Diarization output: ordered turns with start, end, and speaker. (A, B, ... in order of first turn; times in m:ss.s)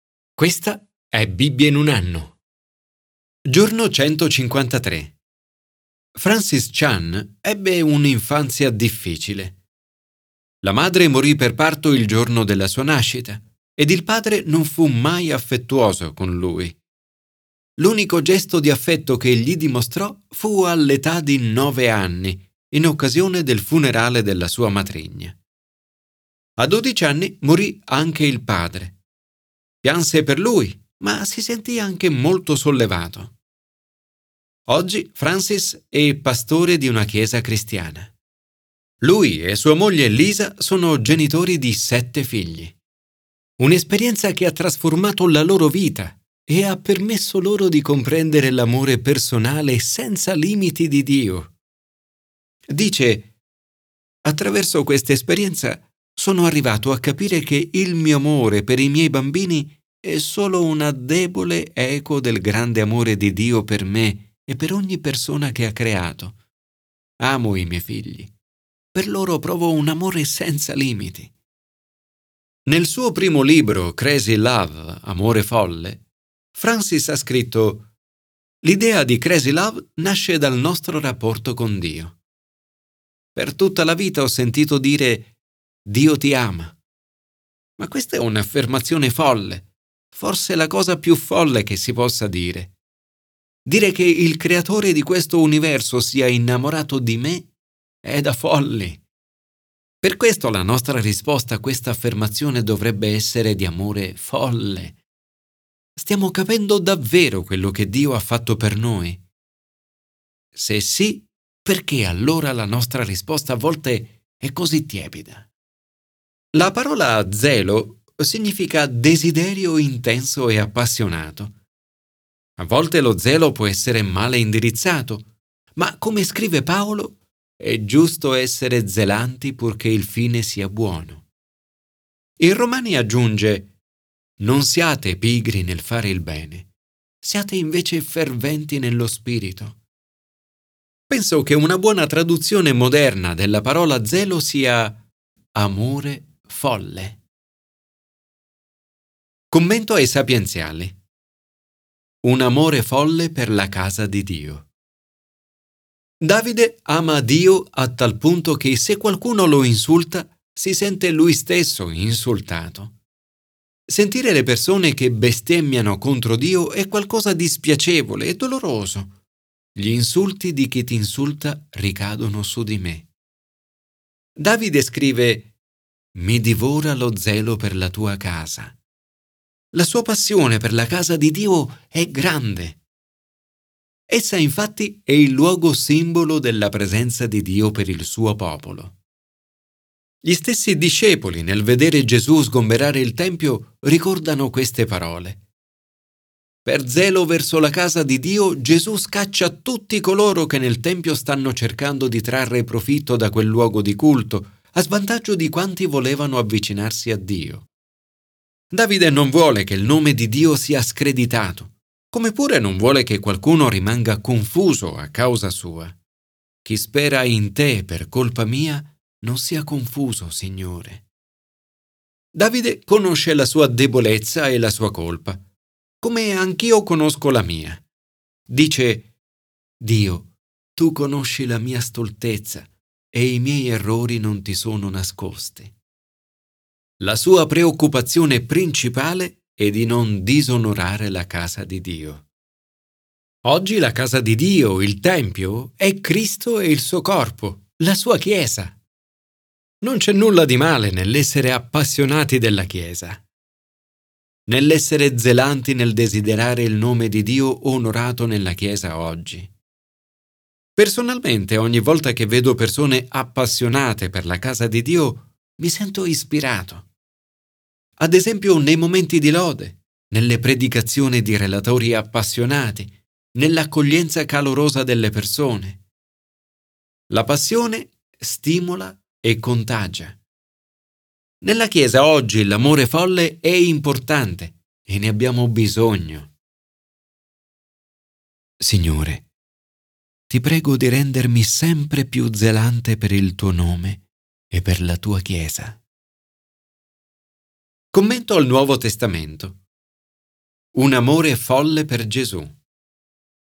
0:00.4-0:02.4 A
0:03.5-0:05.2 A
0:06.2-0:09.6 A
0:10.6-0:16.8 A
0:17.8-0:25.4 A
0:26.6-0:29.0 A
0:29.8-0:33.3 A
0:34.7-0:38.1 A
0:39.0-0:42.8 A
0:43.6-0:51.5 A
0:52.7-0:53.3 A
0:54.2-1:06.4 A
1:07.2-1:08.3 A
1:08.9-1:11.3 A
1:12.7-1:17.9 A
1:18.6-1:22.2 A
1:23.4-1:25.3 A
1:25.9-1:26.8 A
1:27.8-1:32.7 A
1:33.7-1:37.5 A
1:38.0-1:39.0 A
1:40.0-1:45.0 A
1:46.0-1:49.2 A
1:50.5-1:55.5 A
1:56.5-2:01.5 A
2:02.6-2:05.2 A
2:05.8-2:11.3 A
2:12.4-2:13.7 A
2:14.4-2:16.7 A
2:17.2-2:19.8 A
2:21.1-2:25.0 A
2:25.6-2:27.2 A
2:29.5-2:31.0 A
2:32.2-2:34.7 A
2:36.2-2:42.9 A
2:43.9-2:49.1 A
2:49.8-2:53.1 A
2:54.4-2:55.5 A
2:56.2-2:58.8 A
2:59.7-3:02.8 A
3:04.1-3:09.0 A
3:10.2-3:15.4 A
3:16.6-3:27.7 A
3:28.7-3:36.0 A
3:36.6-3:41.0 A
3:42.3-3:45.4 A
3:46.0-3:47.9 A
3:48.5-3:49.1 A
3:49.8-3:55.7 A
3:57.0-4:02.3 A
4:03.4-4:08.8 A
4:09.8-4:13.2 A
4:14.5-4:19.5 A
4:20.8-4:26.9 A
4:28.0-4:35.8 A
4:37.1-4:40.2 A
4:41.4-4:46.3 A
4:48.6-4:49.3 A
4:50.3-4:55.8 A
4:57.9-4:59.6 A
5:00.7-5:02.6 A